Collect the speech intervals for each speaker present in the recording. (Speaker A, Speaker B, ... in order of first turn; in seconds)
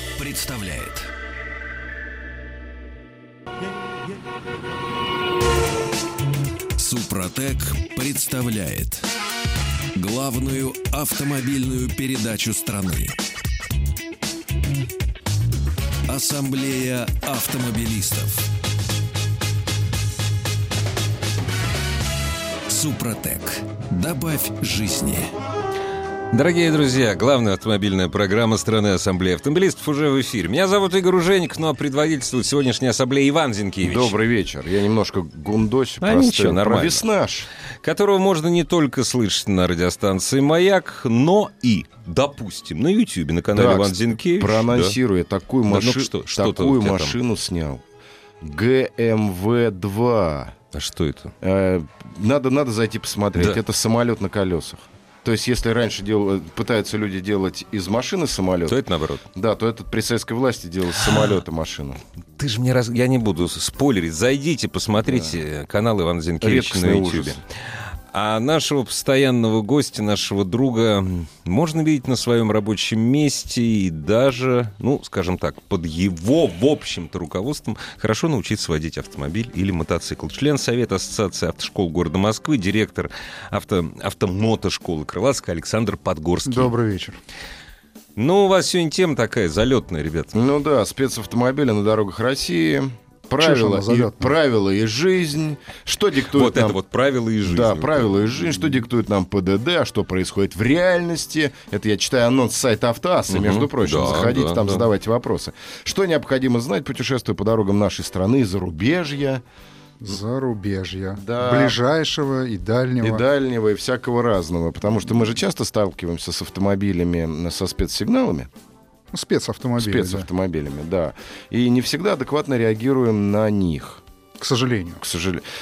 Speaker A: 0.2-1.1, 6.8-9.1, 9.9-13.2, 16.1-18.4, 22.7-25.3
Speaker B: 26.3-34.1, 36.0-37.0, 37.8-45.0, 45.7-47.2, 50.7-51.3, 58.7-59.3, 61.0-61.4, 62.4-67.4, 68.1-86.7, 88.2-90.3, 96.3-98.1, 103.3-104.9
Speaker C: 33.8-37.5, 43.5-47.8, 48.4-50.5, 51.4-58.8, 59.3-62.0, 65.1-65.4, 66.4-67.4, 90.3-96.8, 97.5-109.4, 111.2-111.8, 113.0-118.5, 119.8-124.0, 125.0-125.4
Speaker D: 86.5-87.2, 93.4-94.3, 110.0-113.2, 119.1-120.3, 124.4-125.0